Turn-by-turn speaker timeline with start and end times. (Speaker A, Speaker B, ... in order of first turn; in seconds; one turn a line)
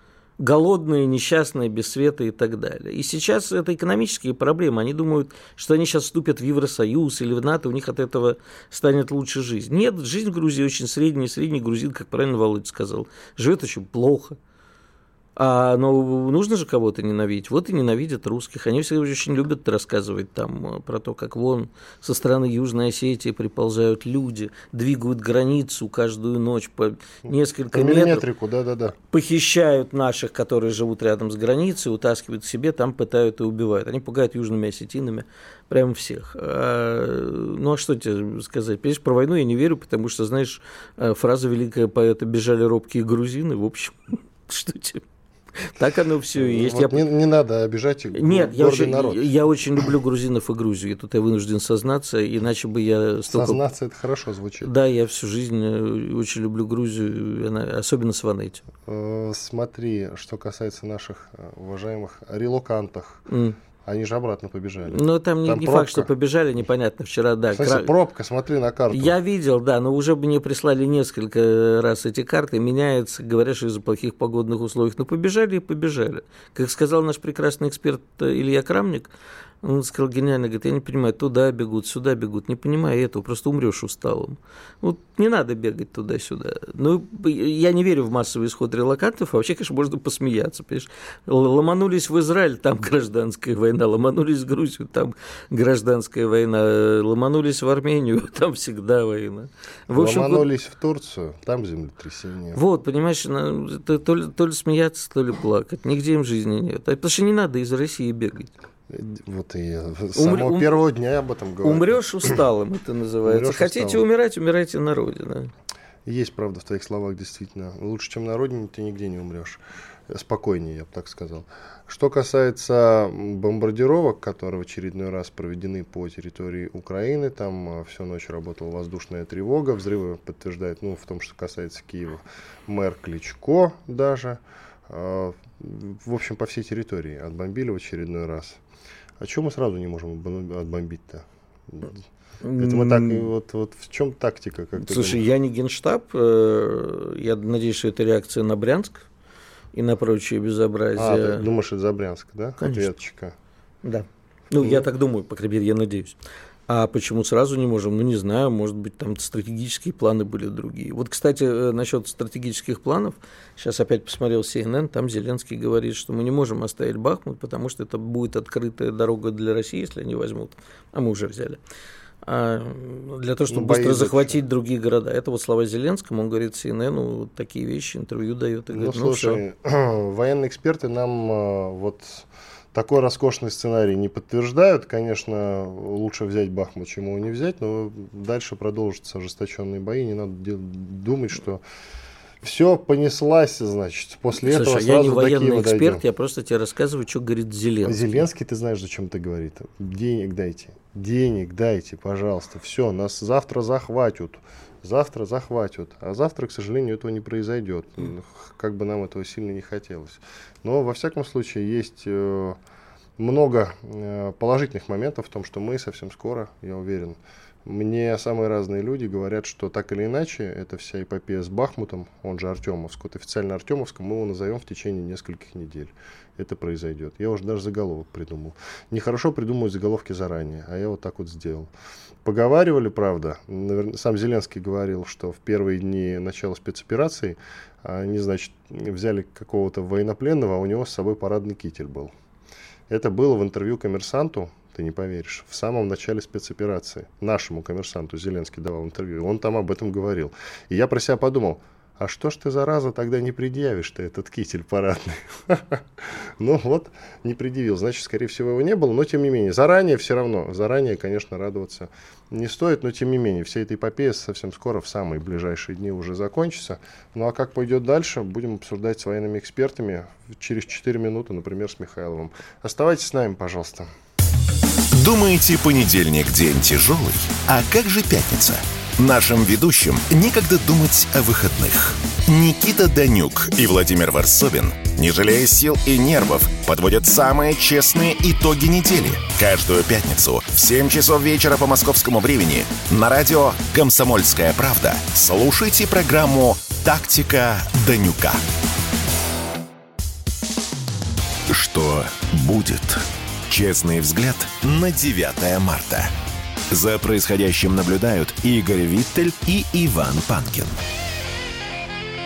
Speaker A: 0.4-14.4
Speaker A: 15.4-28.2
Speaker B: 27.2-28.9
Speaker A: 29.1-45.0
Speaker A: 45.6-47.0
Speaker B: 46.4-49.3
Speaker A: 48.1-53.6
Speaker B: 53.3-54.7
Speaker A: 54.6-58.6
Speaker B: 58.9-63.2
Speaker A: 63.3-63.6
Speaker B: 63.8-66.1
Speaker A: 64.9-67.9
Speaker B: 67.5-69.1
Speaker A: 68.9-79.1
Speaker A: 79.6-100.5
Speaker B: 99.9-102.6
Speaker A: 102.5-108.5
Speaker B: 108.9-112.4
Speaker A: 110.1-110.7
Speaker A: 111.6-115.5
Speaker B: 113.2-114.0
Speaker B: 116.0-138.6
Speaker B: 139.2-142.0
Speaker A: 142.4-143.3
Speaker B: 142.6-145.2
Speaker A: 144.8-149.1
Speaker A: 149.7-151.4
Speaker B: 151.0-153.3
Speaker A: 152.6-152.9
Speaker A: 153.8-156.2
Speaker A: 156.7-171.6
Speaker A: 172.2-179.4
Speaker B: 173.5-174.4
Speaker B: 178.7-191.6
Speaker B: 192.4-196.0
Speaker A: 194.4-198.2
Speaker B: 197.8-212.6
Speaker B: 213.2-231.7
Speaker B: 232.2-242.1
Speaker B: 242.9-273.9
Speaker C: 274.9-298.4
Speaker C: 301.5-306.1
Speaker C: 306.7-310.8